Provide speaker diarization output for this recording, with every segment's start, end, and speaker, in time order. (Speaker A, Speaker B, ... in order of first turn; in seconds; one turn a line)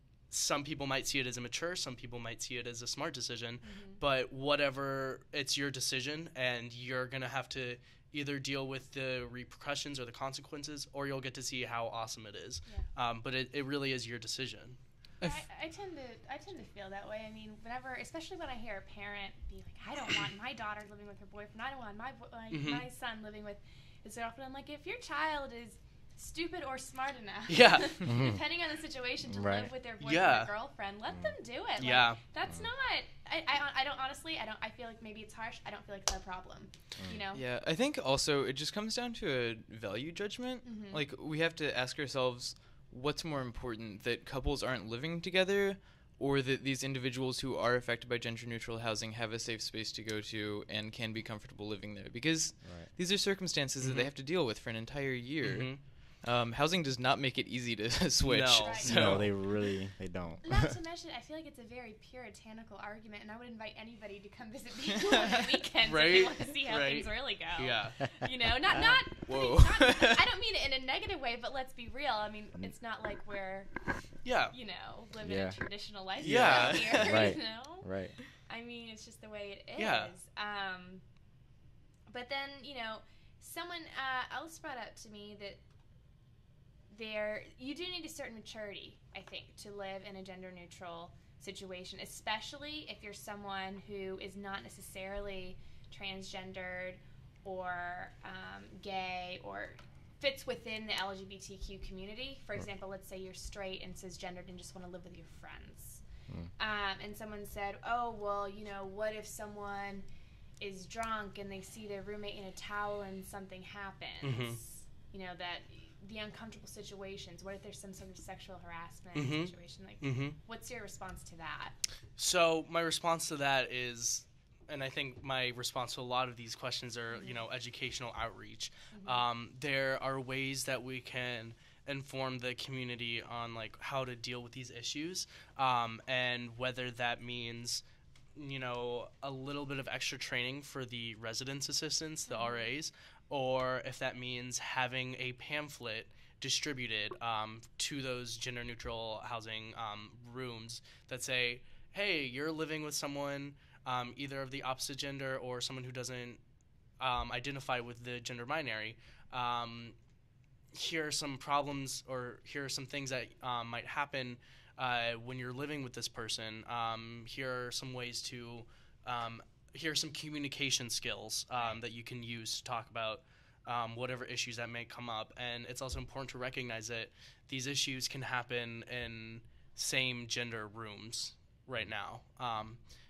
Speaker A: 0.3-15.4
Speaker B: 3.6-4.0
Speaker B: 15.2-37.4
Speaker A: 22.5-22.9
Speaker A: 27.5-28.1
Speaker C: 28.1-28.4
Speaker C: 29.3-29.7
Speaker A: 30.0-30.5
Speaker A: 31.8-32.2
Speaker C: 37.0-37.2
Speaker D: 37.3-59.2
Speaker B: 40.6-41.0
Speaker C: 52.6-52.9
Speaker A: 53.8-54.1
Speaker A: 55.4-55.8
Speaker A: 58.2-59.3
Speaker B: 58.6-59.0
Speaker C: 58.9-60.8
Speaker B: 60.4-73.7
Speaker A: 65.8-68.0
Speaker D: 69.2-70.2
Speaker A: 74.2-74.5
Speaker B: 74.5-81.0
Speaker C: 75.2-75.6
Speaker D: 76.2-76.9
Speaker A: 76.2-77.1
Speaker C: 76.9-78.2
Speaker A: 79.8-80.1
Speaker B: 82.1-85.6
Speaker B: 86.9-106.0
Speaker B: 106.6-110.0
Speaker B: 110.6-121.8
Speaker A: 114.2-114.6
Speaker A: 119.1-120.4
Speaker A: 122.2-137.8
Speaker B: 127.1-127.4
Speaker B: 128.9-129.2
Speaker A: 138.3-156.4
Speaker B: 142.3-142.7
Speaker A: 157.0-159.9
Speaker A: 160.7-182.8
Speaker B: 171.6-171.8